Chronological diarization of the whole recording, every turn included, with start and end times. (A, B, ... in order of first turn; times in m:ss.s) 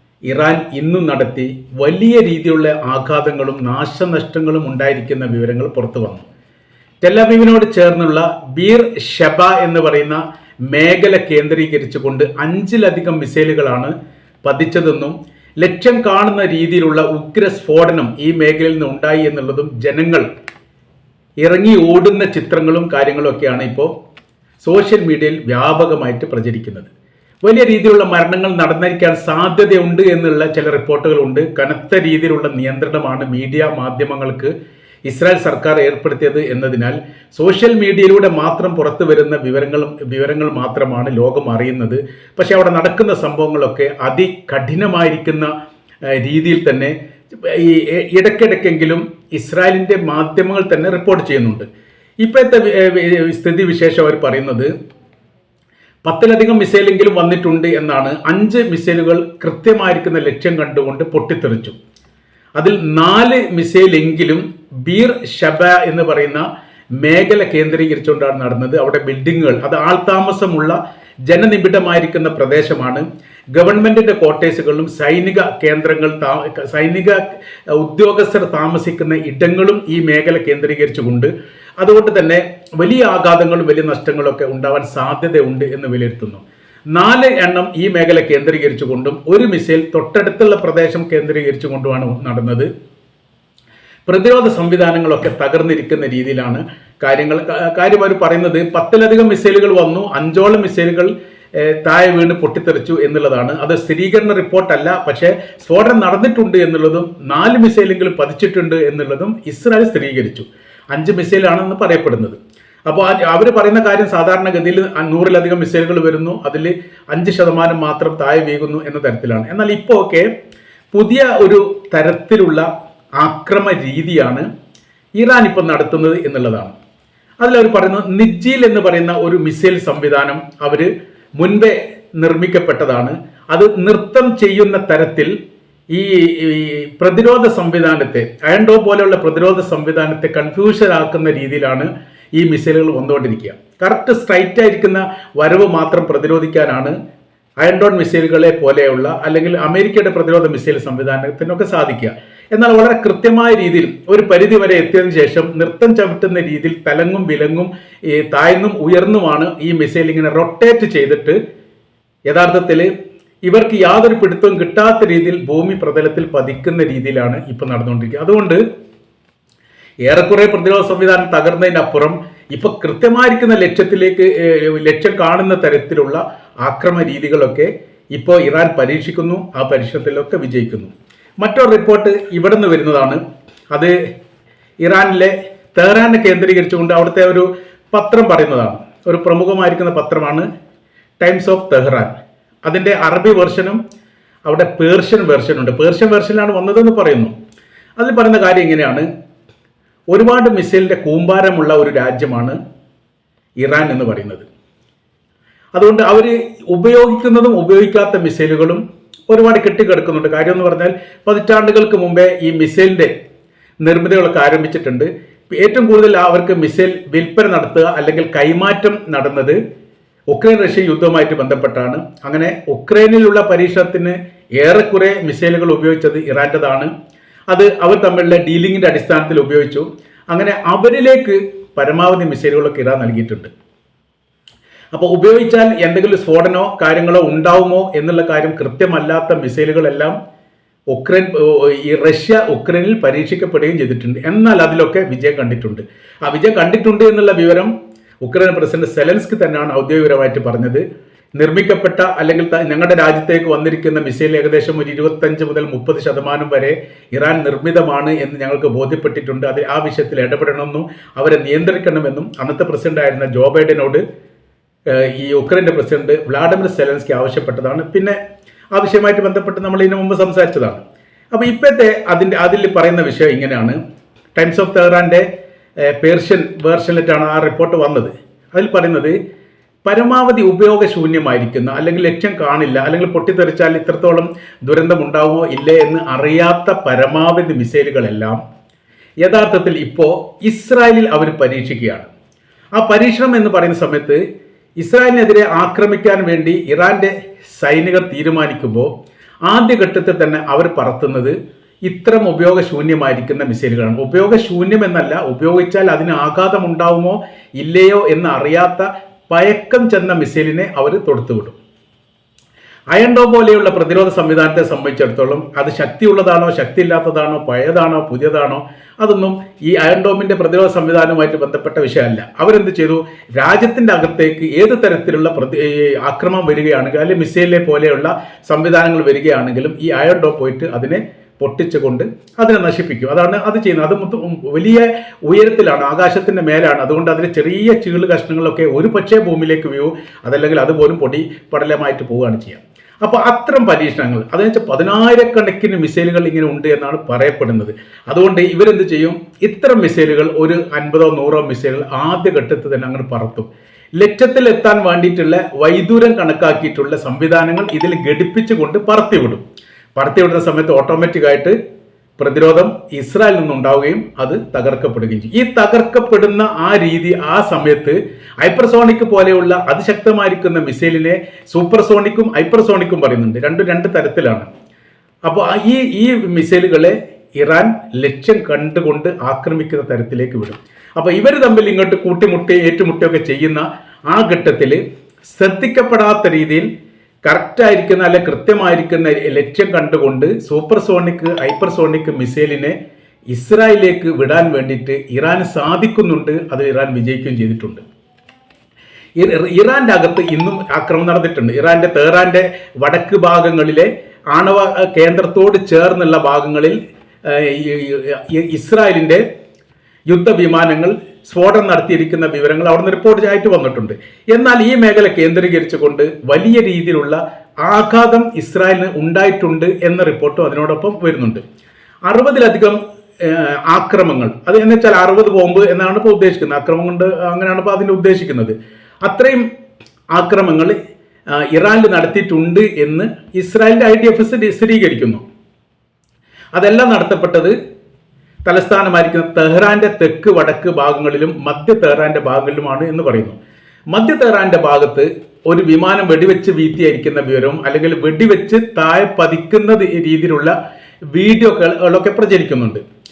0:00.3-0:06.2 A
0:07.0-0:13.9 A
0:14.4-0:20.2 A
0:21.4-0:23.9 A
0:24.6-0:26.9 A
0:27.4-0:34.5 A
0:35.1-0:45.5 A
0:46.1-0:51.6 A
0:52.2-0:54.7 A
0:56.0-1:01.7 A
1:02.6-1:06.4 A
1:07.0-1:10.8 A
1:11.3-1:17.2 A
1:17.7-1:32.7 A
1:34.1-2:00.3 A
2:00.9-2:02.6 A
2:03.2-2:04.4 A
2:05.2-2:06.7 A
2:07.4-2:15.3 A
2:15.9-2:26.9 A
2:27.6-2:41.4 A
2:42.3-2:42.9 A
2:43.4-2:48.6 A
2:50.0-3:03.2 A
3:04.8-3:10.4 A
3:11.2-3:13.8 A
3:14.4-3:17.3 A
3:18.0-3:19.1 A
3:20.1-3:22.6 A
3:23.6-3:24.4 A
3:25.7-3:33.1 A
3:33.8-3:39.6 A
3:40.3-3:46.9 A
3:47.5-3:53.5 A
3:54.9-4:00.1 A
4:00.9-4:10.8 A
4:11.4-4:24.0 A
4:24.9-4:28.2 A
4:28.7-4:33.8 A
4:34.4-4:35.2 A
4:35.9-4:39.2 A
4:39.8-4:48.4 A
4:49.2-4:52.1 A
4:52.8-4:54.2 A
4:54.8-4:58.9 A
4:59.4-5:01.3 A
5:01.8-5:11.6 A
5:12.9-5:59.4 A
5:59.9-6:01.6 A
6:02.2-6:14.5 A
6:15.2-6:26.7 A
6:27.2-6:32.7 A
6:33.3-6:37.8 A
6:39.2-6:49.2 A
6:50.1-7:01.4 A
7:02.0-7:08.5 A
7:09.0-7:09.4 A
7:10.1-7:10.7 A
7:11.4-7:15.2 A
7:16.5-7:17.5 A
7:18.4-7:23.4 A
7:23.9-7:30.5 A
7:31.1-7:32.8 A